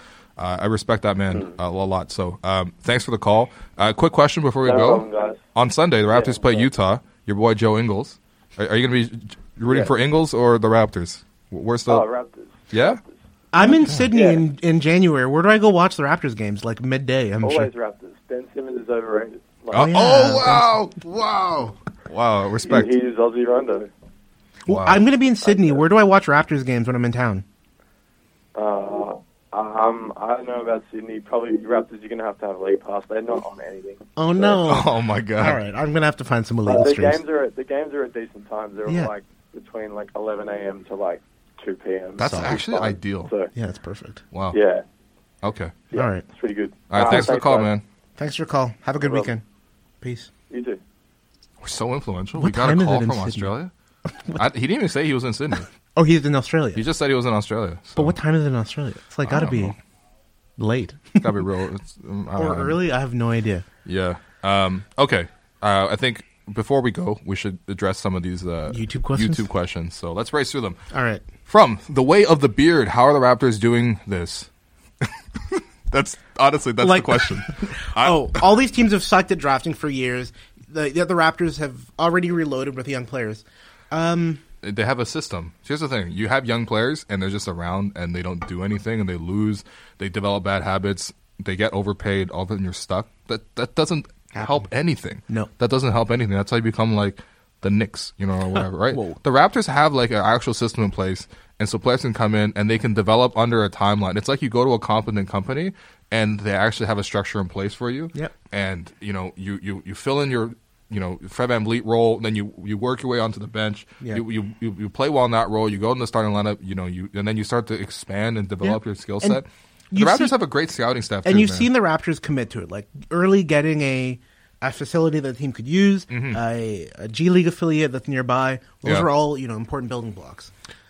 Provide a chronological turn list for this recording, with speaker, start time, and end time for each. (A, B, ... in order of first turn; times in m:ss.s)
0:00.4-0:12.0 A
0:04.6-0:05.4 B
0:06.1-0:06.7 B
0:11.9-0:13.1 B
0:12.7-0:13.0 A
0:13.5-0:17.7 C
0:14.1-0:14.4 B
0:17.4-0:20.0 B
0:19.7-0:20.8 C
0:19.7-0:22.9 A
0:22.6-0:23.9 B
0:24.6-0:27.4 C
0:24.7-0:25.0 A
0:25.4-0:25.8 B
0:28.5-0:34.6 B
0:34.2-0:37.2 C
0:34.6-0:35.6 A
0:36.6-0:43.5 B
0:42.2-0:43.3 A
0:42.2-0:42.6 C
0:43.5-0:44.2 C
0:44.3-0:44.6 A
0:44.5-0:44.8 B
0:45.4-0:45.8 A
0:45.9-0:47.7 B
0:45.9-0:46.2 C
0:46.9-0:47.8 A
0:47.0-0:47.3 C
0:48.2-0:49.4 C
0:49.0-0:49.3 B
0:50.0-0:50.3 C
0:50.5-0:50.8 B
0:51.6-0:53.7 A
0:52.4-0:53.5 C
0:54.4-0:55.7 A
0:55.9-0:56.8 C
0:56.8-0:58.2 A
0:58.0-0:59.8 C
0:59.2-0:59.8 A
1:00.6-1:01.3 C
1:01.2-1:02.8 A
1:02.3-1:03.6 C
1:03.8-1:10.8 A
1:08.7-1:09.5 C
1:10.9-1:11.3 C
1:11.5-1:14.5 A
1:15.0-1:18.4 A
1:16.8-1:24.4 C
1:24.6-2:01.7 A
1:34.4-1:34.6 C
1:38.5-1:39.2 C
1:58.6-2:00.3 C
2:01.2-2:10.5 C
2:06.1-2:06.4 A